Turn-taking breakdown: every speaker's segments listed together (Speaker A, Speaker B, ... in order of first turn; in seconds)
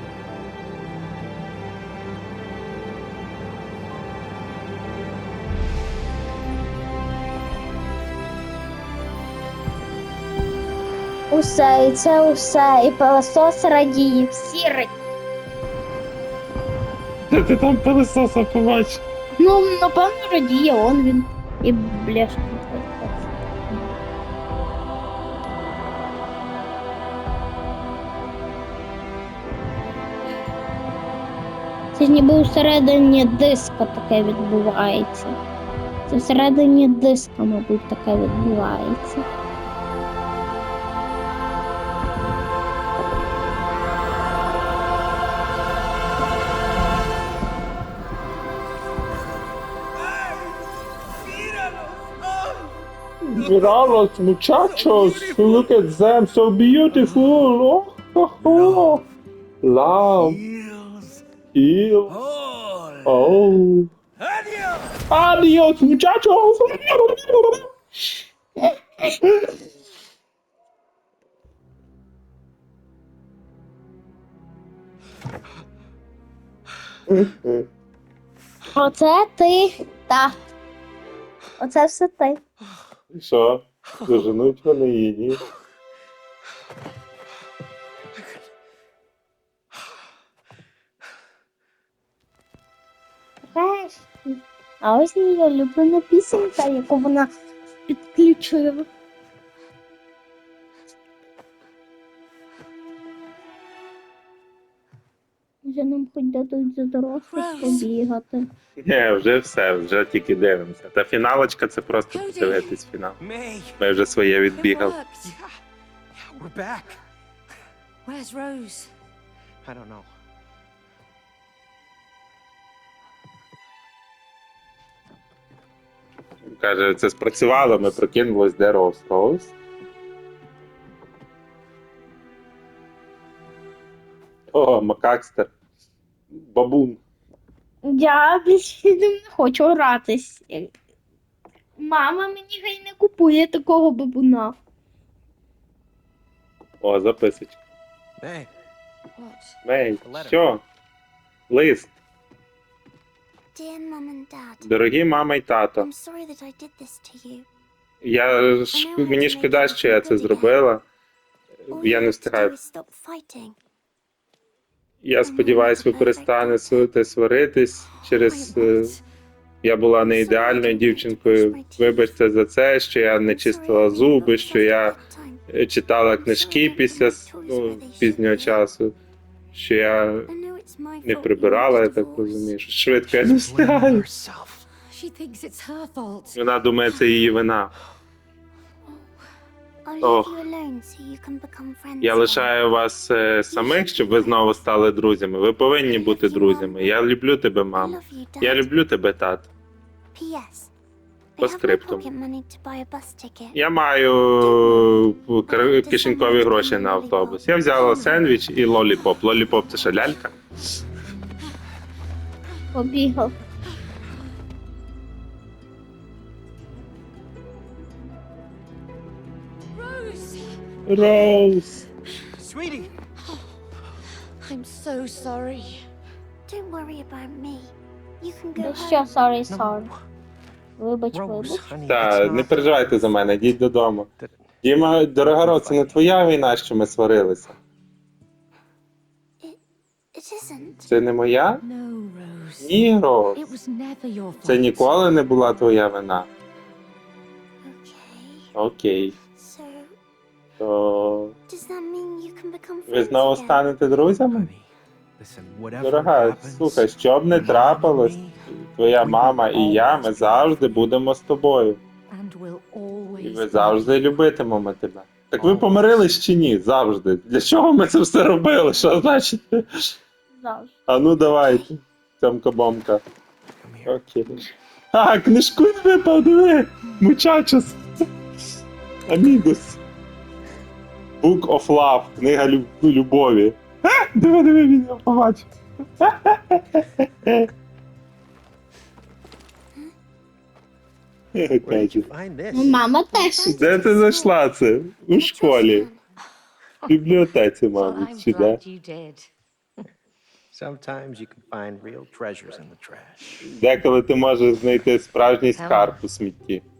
Speaker A: 11.3-14.9, 19.4-23.9, 31.9-35.3, 36.1-39.2, 78.7-80.3, 81.6-82.4, 93.5-97.3, 97.9-98.9, 105.6-108.5, 137.8-140.7, 141.8-144.6, 212.7-213.3, 228.6-229.9, 230.8-231.7, 270.4-270.7, 292.5-293.7
Speaker B: 17.3-19.0, 53.2-59.0, 59.6-60.4, 61.5-62.1, 63.0-63.9, 65.1-67.7, 77.1-77.7, 83.1-85.4, 108.8-113.2, 113.8-115.0, 126.4-129.5, 134.5-135.5, 136.3-137.0, 146.8-147.6, 149.6-150.6, 151.5-151.9, 154.6-155.9, 158.0-160.8, 161.7-162.5, 165.0-168.9, 169.6-174.9, 175.5-178.9, 179.5-180.3, 181.0-184.1, 186.3-187.7, 190.0-190.3, 192.0-199.5, 201.4-202.0, 203.5-210.3, 220.9-221.8, 231.9-234.1, 234.6-237.5, 240.9-241.6, 242.6-243.5, 244.4-246.3, 248.6-249.1, 250.6-251.3, 252.9-254.5, 255.8-261.8, 263.2-269.6, 270.9-273.0, 273.9-274.3, 274.9-277.8, 279.1-279.8, 281.2-285.5, 286.0-287.5, 291.4-292.1, 293.4-295.9, 296.9-298.6, 303.5-306.6
Speaker C: 50.0-50.6, 51.2-52.7, 53.4-54.0, 54.6-55.7, 56.9-57.5, 58.4-59.0, 60.2-61.2, 62.1-63.3, 64.2-65.0, 113.2-113.8, 116.1-117.0, 119.6-120.1, 148.2-148.5, 150.0-150.4, 183.1-184.7, 222.4-222.9, 229.5-229.9, 231.1-233.3, 235.3-236.1, 254.3-258.4, 259.0-260.8, 265.4-265.9, 273.6-273.9, 291.6-292.9, 300.5-303.5
Speaker D: 107.2-107.9, 112.1-112.8, 114.5-115.4, 118.0-118.9, 149.1-149.6, 168.2-169.0, 184.8-186.4, 219.8-221.1, 224.4-225.8, 241.6-242.8, 243.3-245.1, 262.1-264.1, 297.7-299.3, 305.5-306.0
Speaker E: 153.5-154.7, 155.8-157.5, 158.7-160.5, 161.7-163.6, 165.2-166.9, 168.3-168.9, 170.0-172.2, 173.2-175.4, 176.2-178.6, 180.3-182.5, 189.8-192.5, 193.5-194.6, 195.8-197.0, 197.7-198.7, 200.1-200.7, 201.4-203.6, 204.4-208.2, 226.5-229.1, 240.1-240.8, 247.6-248.5, 249.3-249.9, 251.5-253.7, 293.1-294.4, 295.2-296.0